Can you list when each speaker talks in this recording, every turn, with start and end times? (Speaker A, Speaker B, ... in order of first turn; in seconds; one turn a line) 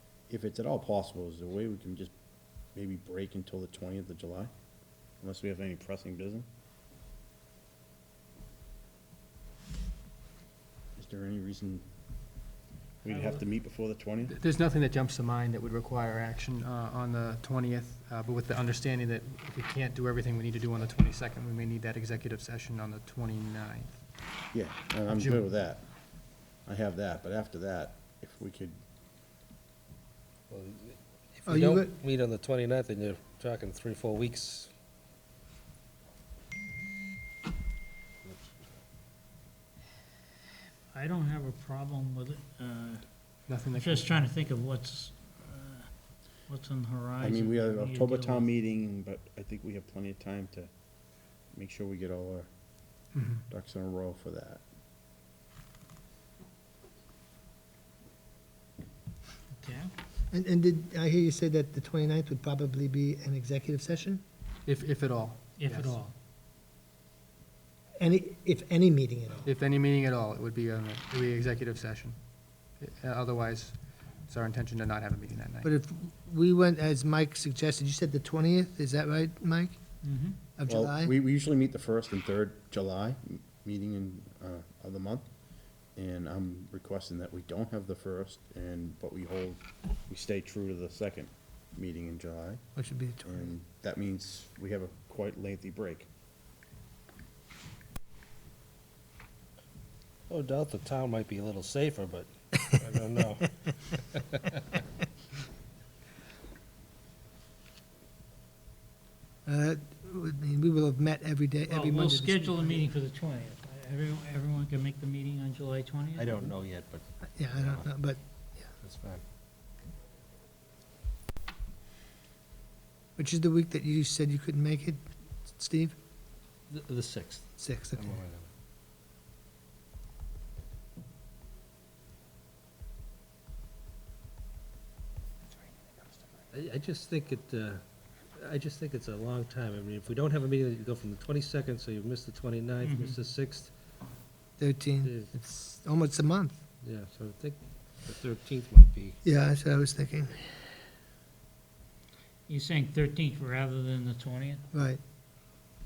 Speaker A: 0.3-2.1
Speaker A: 2.7-4.5
Speaker A: 5.2-6.5
Speaker A: 10.9-11.8
Speaker A: 13.0-14.3
Speaker B: 13.1-13.4
Speaker B: 14.2-24.0
Speaker A: 24.5-25.9
Speaker B: 25.1-25.5
Speaker A: 26.6-28.8
Speaker C: 30.5-34.7
Speaker D: 31.4-31.9
Speaker C: 38.2-38.6
Speaker E: 40.9-43.0
Speaker B: 43.5-44.2
Speaker E: 43.7-45.9
Speaker E: 46.4-48.5
Speaker A: 47.2-50.7
Speaker A: 51.5-52.5
Speaker B: 53.1-53.4
Speaker A: 53.5-54.6
Speaker E: 59.5-59.9
Speaker D: 60.3-64.2
Speaker B: 64.7-66.0
Speaker E: 65.6-66.1
Speaker D: 68.0-69.5
Speaker B: 69.4-72.2
Speaker B: 72.7-75.7
Speaker D: 75.6-79.7
Speaker E: 80.0-80.4
Speaker D: 80.6-81.1
Speaker A: 80.7-85.3
Speaker A: 85.9-92.6
Speaker D: 92.7-93.5
Speaker A: 93.2-96.1
Speaker C: 100.3-104.6
Speaker D: 109.5-112.8
Speaker E: 111.7-116.5
Speaker C: 116.1-117.9
Speaker D: 117.3-118.2
Speaker C: 118.8-119.2
Speaker D: 123.2-125.9
Speaker C: 126.7-128.5
Speaker D: 127.6-128.2
Speaker C: 136.5-137.8
Speaker C: 138.3-143.7
Speaker E: 142.8-143.2
Speaker D: 144.6-146.6
Speaker C: 145.0-145.3
Speaker C: 146.8-149.2
Speaker D: 149.2-150.4
Speaker E: 152.5-154.7
Speaker D: 154.7-155.0